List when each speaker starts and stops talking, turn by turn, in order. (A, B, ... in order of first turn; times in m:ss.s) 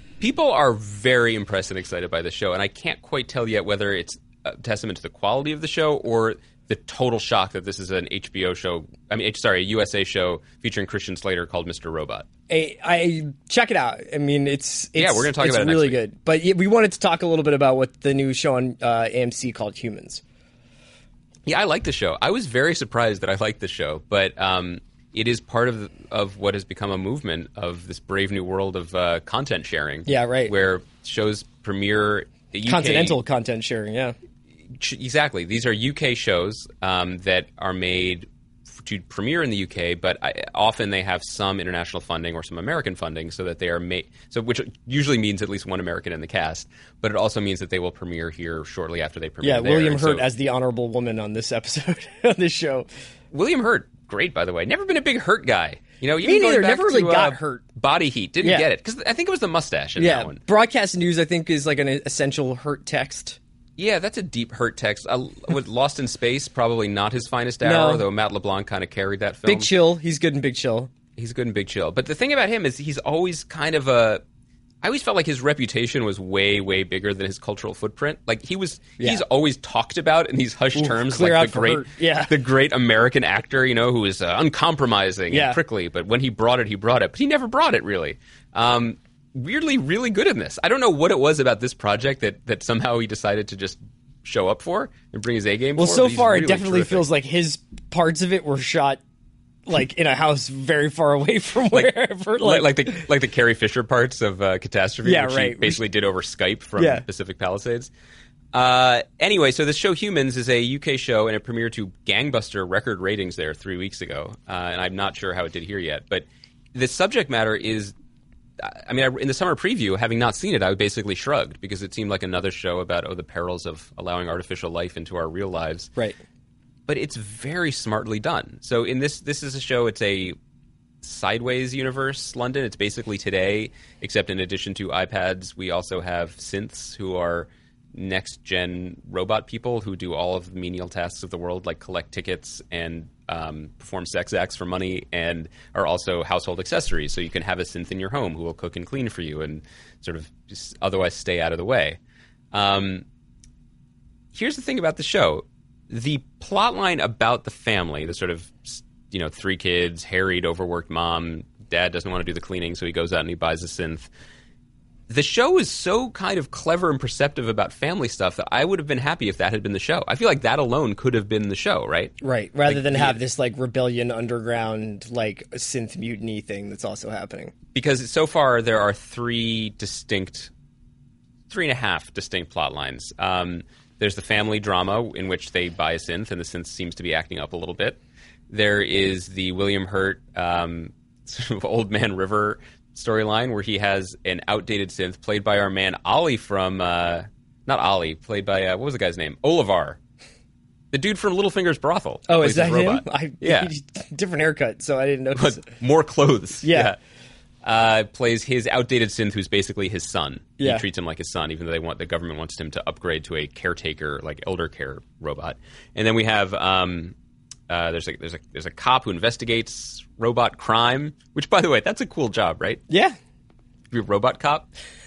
0:00.2-0:12.2 A
0:12.5-0:20.2 B
0:15.0-0:16.0 A
0:21.4-0:33.2 A
0:30.0-0:30.5 B
0:32.6-0:34.2 B
0:34.7-0:50.2 A
0:49.4-0:52.9 B
0:53.3-1:00.4 A
0:56.2-0:57.6 B
0:58.4-0:58.7 B
1:00.0-1:03.4 B
1:03.8-1:09.7 A
1:07.6-1:08.0 B
1:09.4-1:10.9 B
1:11.2-1:14.2 A
1:14.8-1:37.0 A
1:20.7-1:22.3 B
1:25.3-1:25.6 B
1:35.8-1:39.0 B
1:39.7-1:43.0 B
1:41.7-1:47.9 A
1:45.0-1:45.8 B
1:46.8-1:47.0 B
1:48.5-1:57.9 A
1:58.6-2:05.9 A
2:06.9-2:10.4 A
2:11.0-2:32.0 A
2:32.5-2:33.0 A
2:34.3-2:44.1 A
2:45.1-2:52.1 A
2:52.2-2:57.5 B
2:52.7-2:53.2 A
2:57.7-3:00.5 A
3:01.5-3:20.0 A
3:20.9-3:23.7 A
3:22.3-3:25.6 B
3:25.3-3:27.0 A
3:26.6-3:26.9 B
3:27.6-3:37.1 A
3:30.6-3:30.8 B
3:37.7-3:42.8 A
3:42.9-3:43.2 B
3:43.9-3:44.7 A